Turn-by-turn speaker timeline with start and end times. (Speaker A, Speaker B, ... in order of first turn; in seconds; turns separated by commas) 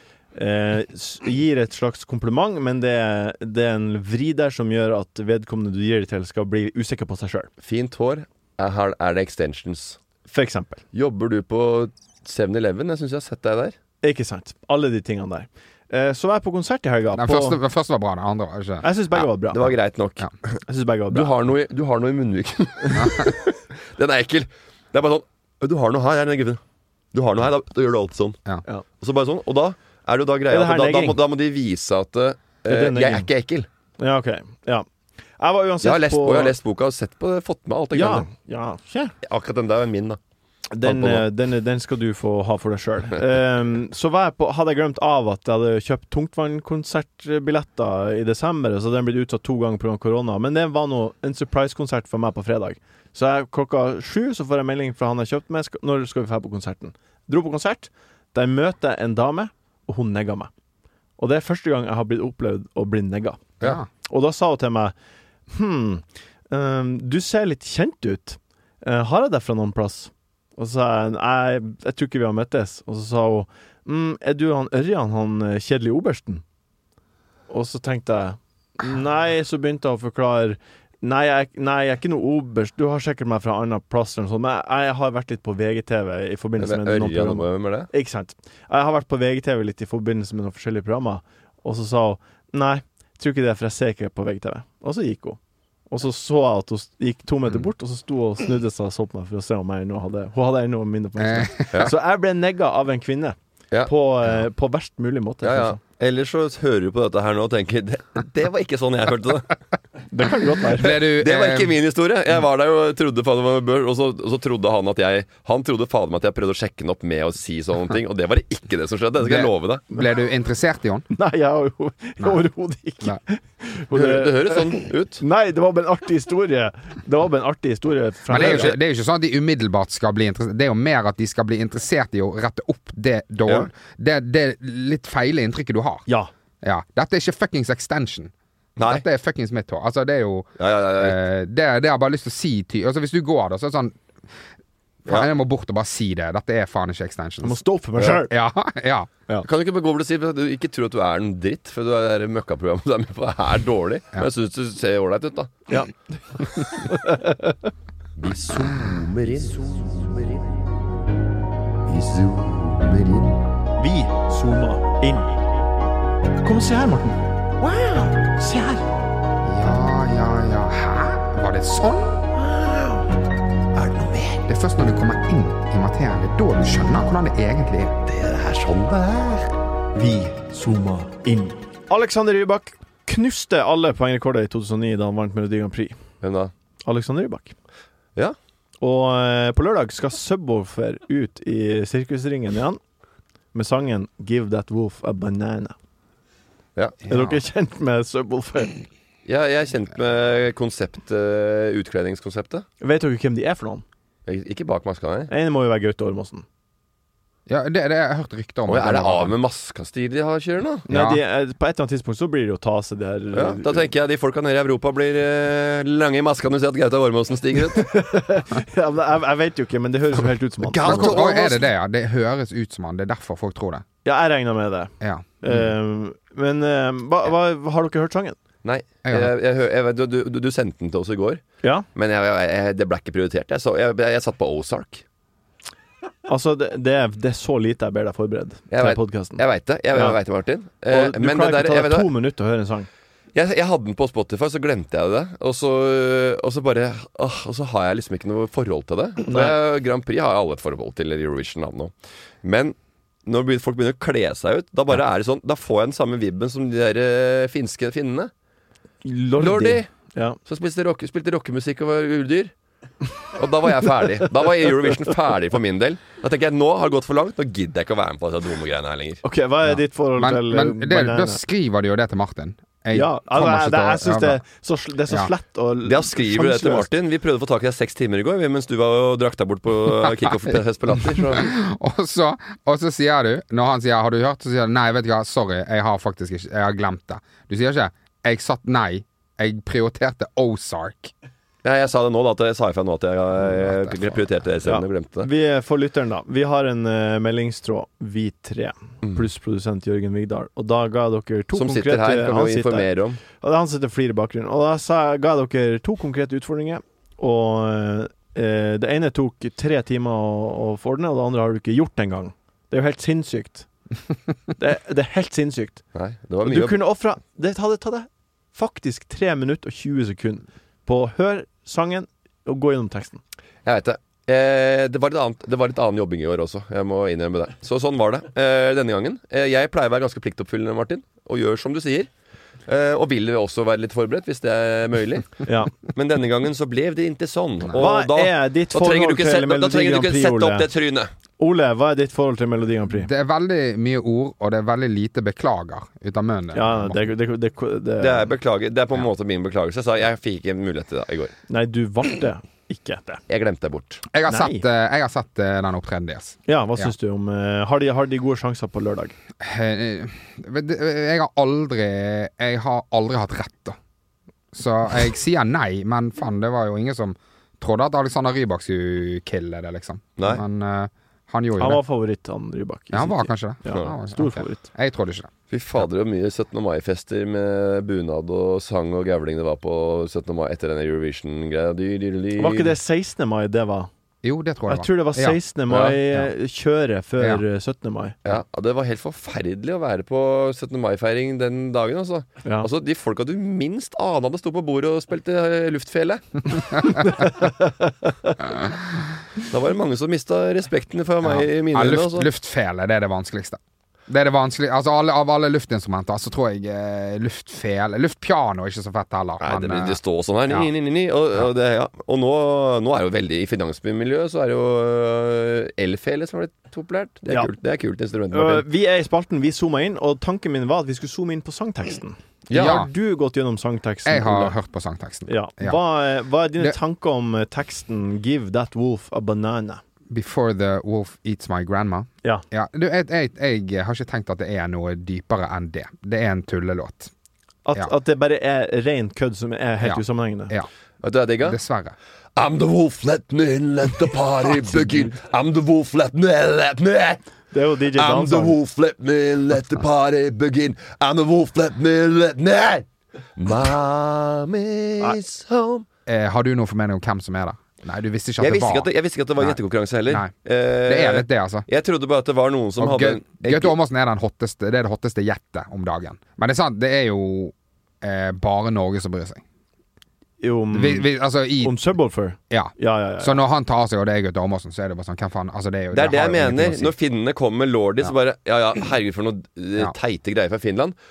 Speaker A: 0.3-7.5, Speaker B: 7.6-10.0, Speaker A: 10.3-10.8, Speaker B: 10.9-13.8, Speaker A: 14.0-17.6, Speaker C: 17.1-18.9, Speaker A: 18.8-19.6, Speaker B: 19.5-20.3, Speaker A: 20.7-21.3, Speaker B: 21.1-26.6, Speaker B: 27.1-28.4, Speaker B: 29.0-33.7, Speaker A: 30.5-31.2, Speaker A: 32.7-33.2, Speaker A: 34.0-34.9, Speaker A: 35.4-36.5, Speaker B: 35.8-38.3, Speaker A: 37.9-39.1, Speaker B: 39.2-40.2, Speaker A: 40.7-60.5, Speaker B: 40.8-41.2, Speaker A: 61.2-64.9, Speaker C: 63.6-63.9, Speaker A: 65.5-76.4, Speaker A: 77.5-105.8, Speaker B: 86.6-87.9, Speaker C: 101.2-101.8, Speaker B: 105.4-109.6, Speaker A: 110.1-111.0, Speaker C: 110.8-111.7, Speaker B: 110.9-119.8, Speaker C: 119.2-121.1, Speaker A: 121.1-128.7, Speaker B: 123.9-125.2, Speaker C: 128.3-136.0, Speaker B: 128.3-128.7, Speaker C: 136.6-138.3, Speaker B: 138.8-139.0, Speaker C: 138.8-143.9, Speaker B: 140.6-141.2, Speaker C: 145.1-147.6, Speaker A: 147.4-148.3, Speaker C: 148.3-149.1, Speaker B: 149.4-155.6, Speaker A: 155.7-157.6, Speaker B: 158.2-160.5, Speaker B: 161.8-163.4, Speaker A: 163.8-165.4, Speaker A: 166.4-168.8, Speaker C: 169.4-172.2, Speaker B: 173.7-174.4, Speaker C: 174.5-177.9, Speaker B: 178.1-179.5, Speaker A: 179.9-186.0, Speaker B: 186.2-186.5, Speaker A: 186.8-187.5, Speaker A: 188.8-192.8, Speaker A: 193.5-195.7, Speaker B: 196.8-197.0, Speaker C: 197.1-197.4, Speaker A: 197.1-198.8, Speaker B: 199.2-202.7, Speaker A: 202.8-203.8, Speaker B: 204.2-205.3, Speaker A: 205.3-206.4, Speaker C: 207.5-209.3, Speaker B: 208.7-210.8, Speaker A: 210.9-213.9, Speaker C: 210.9-211.2, Speaker B: 213.3-217.9, Speaker A: 217.7-221.2, Speaker B: 220.6-221.6, Speaker C: 220.8-223.8, Speaker A: 224.0-228.3, Speaker B: 228.6-235.0, Speaker C: 229.0-229.3, Speaker A: 236.3-239.4, Speaker B: 238.7-242.1, Speaker A: 239.9-240.2, Speaker A: 240.9-242.9, Speaker B: 243.3-258.3, Speaker A: 249.3-249.6, Speaker A: 259.0-260.4, Speaker B: 259.4-259.9, Speaker B: 260.4-262.5, Speaker B: 263.4-269.2, Speaker A: 269.2-271.4, Speaker C: 269.7-274.4, Speaker A: 272.9-276.9, Speaker B: 275.8-281.5, Speaker C: 281.3-291.1, Speaker B: 291.6-295.3, Speaker C: 293.6-294.2, Speaker A: 294.6-313.7, Speaker B: 301.5-303.2, Speaker A: 314.6-315.8, Speaker B: 315.9-316.8, Speaker A: 316.4-323.2, Speaker B: 323.6-332.1, Speaker B: 332.7-341.1, Speaker A: 335.4-335.9, Speaker A: 337.8-340.6, Speaker A: 341.4-343.1, Speaker C: 343.0-347.1, Speaker A: 346.5-348.3, Speaker B: 348.0-351.3, Speaker A: 351.5-353.2, Speaker B: 353.3-354.0, Speaker C: 354.1-356.9, Speaker A: 354.3-354.6, Speaker A: 356.5-359.1, Speaker C: 359.4-363.8, Speaker C: 364.5-371.8, Speaker B: 370.2-370.4, Speaker A: 371.6-374.7, Speaker C: 372.9-375.3, Speaker B: 375.5-382.7, Speaker A: 382.4-383.9, Speaker C: 384.2-385.4, Speaker A: 384.7-388.2, Speaker B: 385.7-386.0, Speaker B: 388.2-396.5, Speaker A: 392.4-392.7, Speaker A: 397.1-397.8, Speaker B: 399.5-402.3, Speaker C: 401.2-410.0, Speaker B: 409.4-418.6, Speaker A: 418.3-424.5, Speaker B: 422.5-422.8, Speaker C: 422.5-422.9, Speaker C: 424.1-425.8, Speaker A: 425.3-429.8, Speaker C: 430.1-437.1, Speaker A: 437.6-440.5, Speaker C: 439.8-440.7, Speaker B: 441.0-441.6, Speaker C: 441.4-441.9, Speaker B: 442.4-447.2, Speaker A: 447.5-448.6, Speaker B: 447.9-455.9, Speaker C: 456.1-459.6, Speaker B: 458.4-463.7, Speaker C: 460.9-461.6, Speaker C: 462.8-469.4, Speaker A: 470.4-473.4, Speaker C: 470.7-471.8, Speaker C: 472.5-476.9, Speaker B: 475.9-480.9